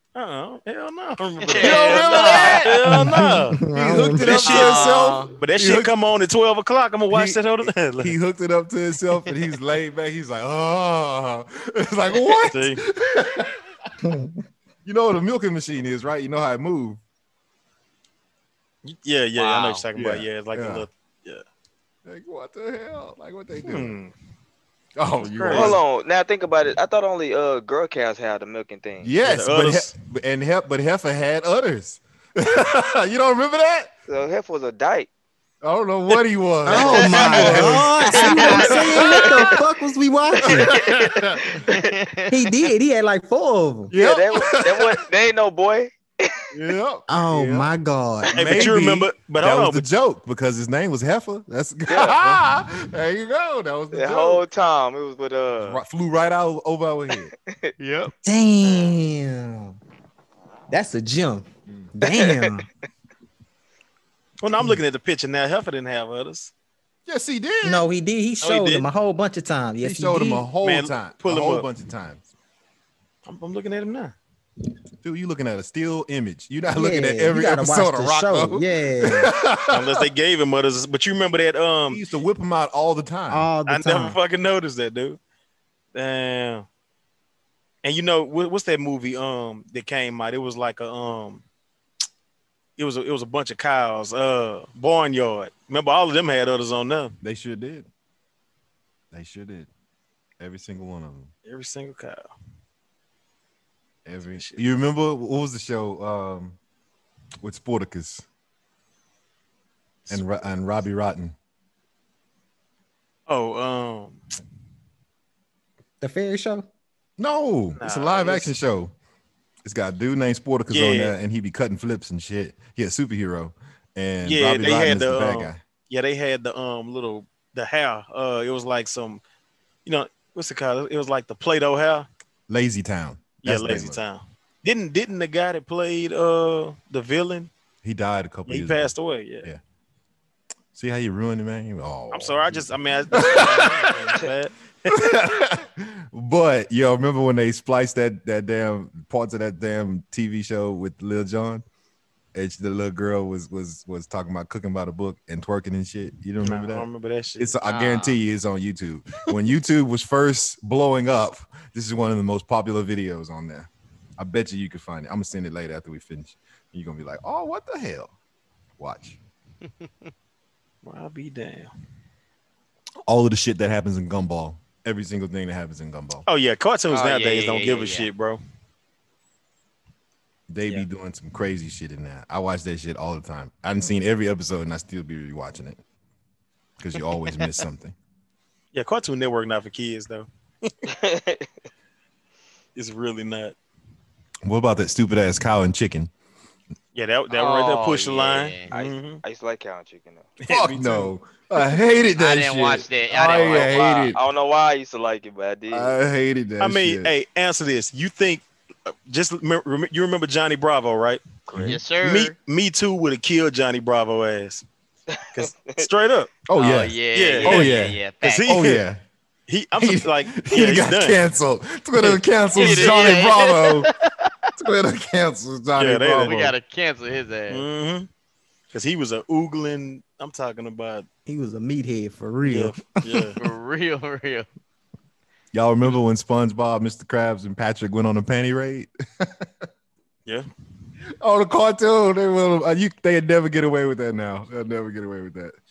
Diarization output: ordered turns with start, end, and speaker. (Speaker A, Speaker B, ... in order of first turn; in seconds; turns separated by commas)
Speaker A: 0.1-3.6, Speaker B: 1.4-2.7, Speaker C: 1.6-5.9, Speaker D: 2.9-4.4, Speaker A: 4.3-8.1, Speaker B: 4.4-5.3, Speaker C: 7.1-13.6, Speaker A: 12.3-12.8, Speaker D: 14.0-14.4, Speaker C: 14.8-17.0, Speaker A: 18.8-21.4, Speaker B: 19.4-19.8, Speaker C: 20.0-20.9, Speaker C: 22.1-24.0, Speaker A: 23.6-24.1, Speaker C: 25.0-25.8, Speaker A: 25.2-25.8, Speaker E: 25.5-29.1, Speaker C: 29.0-33.9, Speaker A: 29.2-29.9, Speaker E: 34.1-35.1, Speaker C: 35.6-39.4, Speaker D: 36.7-40.7, Speaker E: 36.7-37.6, Speaker B: 38.2-38.7, Speaker E: 38.2-39.5, Speaker E: 40.4-42.0, Speaker C: 40.5-41.6, Speaker B: 41.7-42.3, Speaker D: 42.3-43.9, Speaker C: 43.9-45.0, Speaker E: 43.9-46.4, Speaker C: 46.5-47.7, Speaker D: 47.1-48.6, Speaker A: 48.3-49.8, Speaker C: 48.3-54.4, Speaker E: 51.9-52.2, Speaker E: 53.9-55.8, Speaker C: 55.6-57.3, Speaker E: 57.3-57.7, Speaker B: 57.8-58.1, Speaker D: 58.2-59.8, Speaker E: 58.6-59.0, Speaker D: 60.7-62.7, Speaker E: 62.0-62.6, Speaker A: 64.4-66.5, Speaker C: 67.1-67.9, Speaker D: 67.6-70.5, Speaker A: 68.4-68.8, Speaker C: 69.8-72.2, Speaker A: 70.6-71.7, Speaker A: 73.2-74.2, Speaker C: 75.0-80.0, Speaker D: 76.7-79.3, Speaker A: 79.7-82.0, Speaker C: 81.9-83.5, Speaker D: 83.3-84.2, Speaker A: 83.7-85.2, Speaker A: 86.0-86.7, Speaker A: 87.8-91.4, Speaker A: 92.8-97.2, Speaker C: 97.2-97.9, Speaker C: 99.1-99.7, Speaker C: 100.4-101.3, Speaker A: 101.5-102.3, Speaker C: 104.0-106.6, Speaker C: 107.4-108.2, Speaker C: 110.1-111.4, Speaker A: 113.3-114.2, Speaker D: 116.0-116.7, Speaker C: 117.2-118.9, Speaker A: 117.8-118.5, Speaker C: 119.6-125.6, Speaker A: 120.7-121.2, Speaker A: 124.2-129.2, Speaker A: 129.8-132.1, Speaker C: 132.5-134.0, Speaker A: 133.4-137.5, Speaker C: 137.8-139.6, Speaker A: 138.5-139.5, Speaker C: 140.7-144.1, Speaker A: 142.1-144.5, Speaker C: 144.9-151.6, Speaker C: 152.3-168.1, Speaker A: 156.4-157.5, Speaker B: 157.7-158.2, Speaker C: 168.8-169.2, Speaker A: 170.8-171.7, Speaker C: 173.1-176.2, Speaker A: 176.3-178.4, Speaker B: 176.9-178.1, Speaker C: 180.5-185.8, Speaker C: 186.8-187.9, Speaker A: 188.7-190.7, Speaker E: 190.9-191.5, Speaker A: 192.8-193.6, Speaker C: 194.4-196.1, Speaker A: 196.9-199.2, Speaker B: 197.3-198.7, Speaker E: 198.7-200.3, Speaker A: 200.4-201.1, Speaker C: 200.5-204.2, Speaker B: 202.2-204.1, Speaker E: 203.3-206.0, Speaker C: 205.7-207.1, Speaker A: 206.6-211.2, Speaker C: 211.5-211.8, Speaker B: 211.6-212.3, Speaker A: 212.0-214.7, Speaker E: 215.2-215.9, Speaker A: 215.3-216.3, Speaker C: 216.5-219.0, Speaker B: 216.6-218.5, Speaker A: 217.1-218.8, Speaker A: 219.5-221.2, Speaker C: 219.8-223.9, Speaker A: 222.0-223.0, Speaker B: 222.5-224.5, Speaker C: 224.6-226.4, Speaker A: 225.8-226.5, Speaker B: 226.2-227.7, Speaker A: 227.5-228.1, Speaker A: 228.7-231.1, Speaker D: 231.3-233.3, Speaker A: 232.4-233.4, Speaker B: 233.4-234.5, Speaker C: 235.5-239.6, Speaker C: 241.2-245.6